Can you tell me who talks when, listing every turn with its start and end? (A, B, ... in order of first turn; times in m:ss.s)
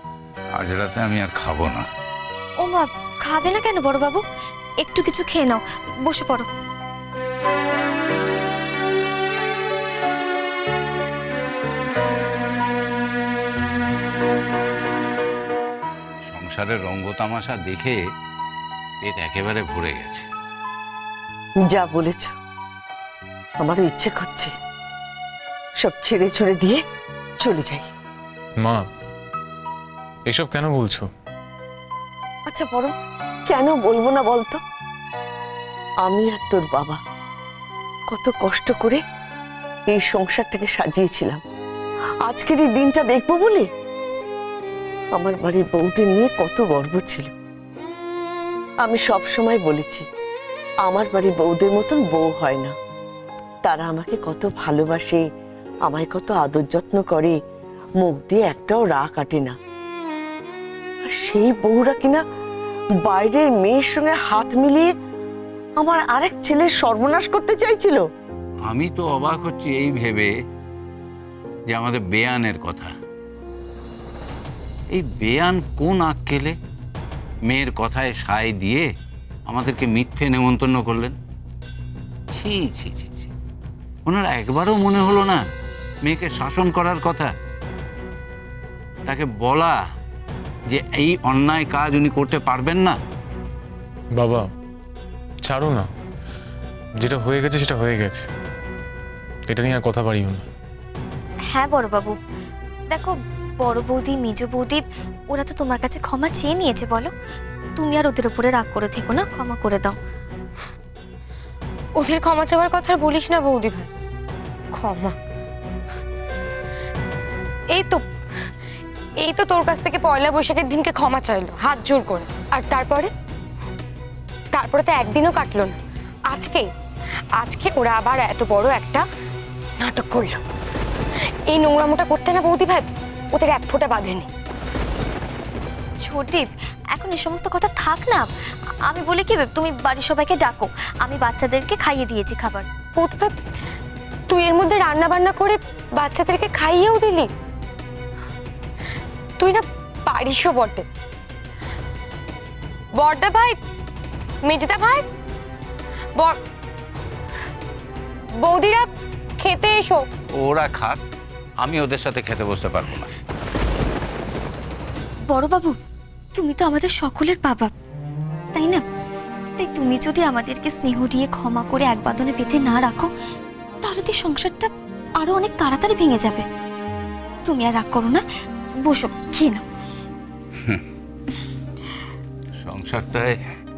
0:00.6-0:01.8 A
0:02.6-0:04.2 B
0:04.8-0:06.5 B
0:16.3-0:18.0 A
0:19.0-0:20.2 A
0:21.6-0:22.3 C
0:23.6-0:24.5 C
0:25.8-0:26.8 C
0:27.4-0:27.9 C
0:30.3-0:31.1 D
0:32.5-0:32.9 C
0:33.5-0:34.6 C
0:36.0-0:37.0 C
0:38.1-0:39.0 C
0:39.9-0:41.4 C
0:42.2-0:43.7 C
0:45.1-0:47.3 C
0:48.8-0:50.0 C
0:50.8-0:52.7 C
0:53.6-0:55.2 C
0:55.8-0:57.3 C
0:58.0-0:59.5 C
1:01.0-1:02.2 C
1:03.0-1:04.9 C
1:05.8-1:08.0 C
1:08.6-1:10.3 A
1:11.7-1:12.9 A
1:14.9-1:16.6 A
1:17.5-1:18.8 A
1:19.5-1:21.2 A
1:22.3-1:23.3 A
1:24.0-1:25.4 A
1:26.0-1:27.3 A
1:29.0-1:29.8 A
1:30.7-1:33.0 A
1:34.2-1:34.5 D
1:35.4-1:35.9 D
1:37.0-1:38.3 D
1:39.5-1:40.5 D
1:41.5-1:42.2 B
1:42.9-1:47.1 B
1:47.8-1:50.0 B
1:52.0-1:53.9 E
1:54.7-1:55.2 E
1:57.7-1:58.0 E
1:59.2-2:03.1 E
2:04.5-2:05.8 E
2:06.3-2:06.7 E
2:07.4-2:09.0 E
2:09.8-2:10.4 E
2:11.5-2:14.3 E
2:16.0-2:18.3 B
2:18.9-2:22.6 B
2:23.0-2:23.3 E
2:24.3-2:27.3 E
2:29.4-2:30.8 E
2:33.0-2:33.6 E
2:34.4-2:35.0 E
2:38.4-2:40.0 E
2:40.4-2:41.0 A
2:41.6-2:43.1 A
2:45.3-2:45.8 B
2:46.3-2:47.7 B
2:48.5-2:48.8 B
2:49.6-2:53.1 B
2:53.8-2:56.4 B
2:57.4-2:58.2 B
2:58.8-2:59.6 B
3:02.6-3:03.3 A